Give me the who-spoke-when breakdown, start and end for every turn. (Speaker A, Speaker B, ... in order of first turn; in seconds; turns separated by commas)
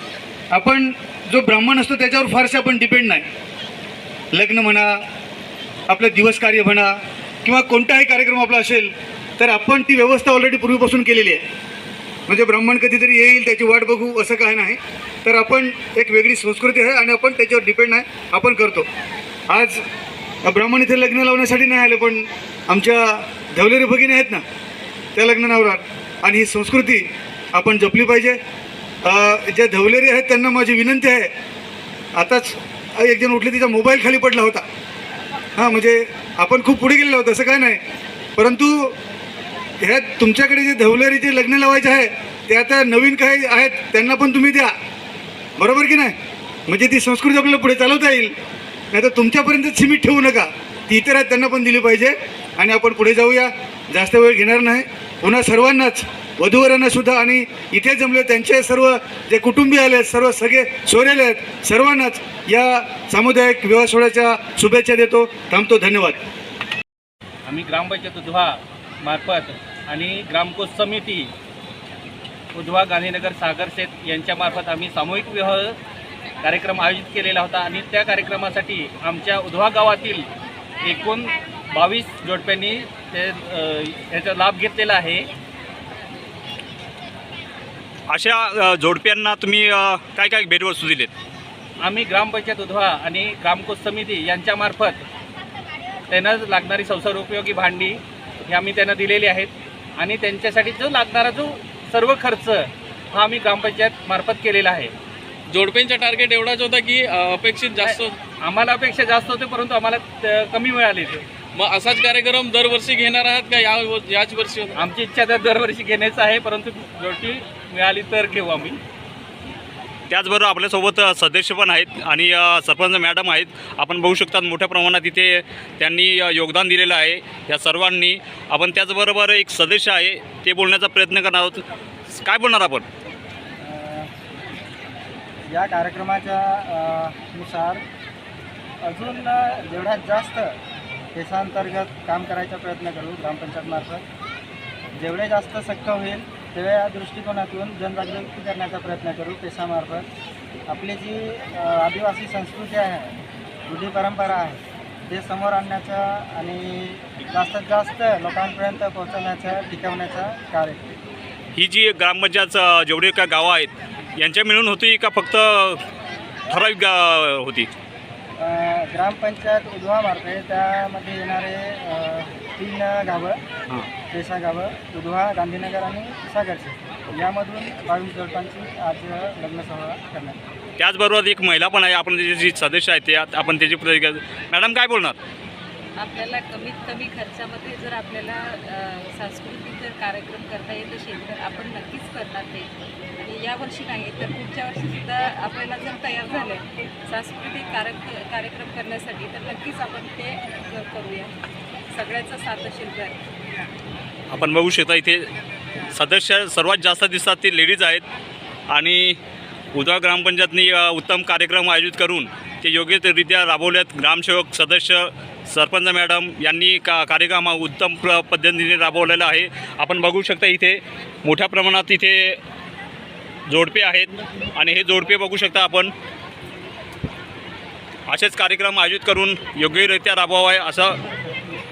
Speaker A: 0.5-3.2, Speaker A: 4.3-5.0, Speaker A: 5.9-11.4, Speaker A: 12.3-18.9, Speaker A: 19.5-19.8, Speaker A: 20.4-24.4, Speaker A: 25.1-28.4, Speaker A: 29.0-31.3, Speaker A: 32.1-34.6, Speaker A: 35.5-37.8, Speaker A: 38.4-38.9, Speaker A: 39.8-44.7, Speaker A: 45.6-46.1, Speaker A: 46.7-48.3, Speaker A: 48.9-66.2, Speaker B: 67.5-71.3, Speaker B: 72.5-75.8, Speaker B: 76.4-80.3, Speaker B: 80.8-85.3, Speaker C: 88.1-91.1, Speaker B: 91.8-95.0, Speaker B: 96.1-104.9, Speaker D: 105.5-108.2, Speaker B: 107.8-111.2, Speaker D: 111.5-114.7, Speaker B: 114.7-118.8, Speaker C: 120.1-132.8, Speaker E: 133.6-134.1, Speaker E: 135.5-137.8, Speaker E: 138.8-140.6, Speaker E: 141.1-144.0, Speaker E: 145.0-150.1, Speaker E: 150.7-160.9, Speaker C: 161.6-165.8, Speaker C: 166.5-167.7, Speaker E: 168.4-173.4, Speaker E: 174.1-180.4, Speaker C: 180.8-185.2, Speaker F: 186.0-192.7, Speaker F: 193.2-201.3, Speaker F: 201.9-203.1, Speaker C: 204.3-205.3, Speaker C: 205.9-208.0, Speaker C: 208.7-209.2, Speaker C: 209.7-222.4, Speaker C: 223.5-225.9, Speaker C: 228.1-231.0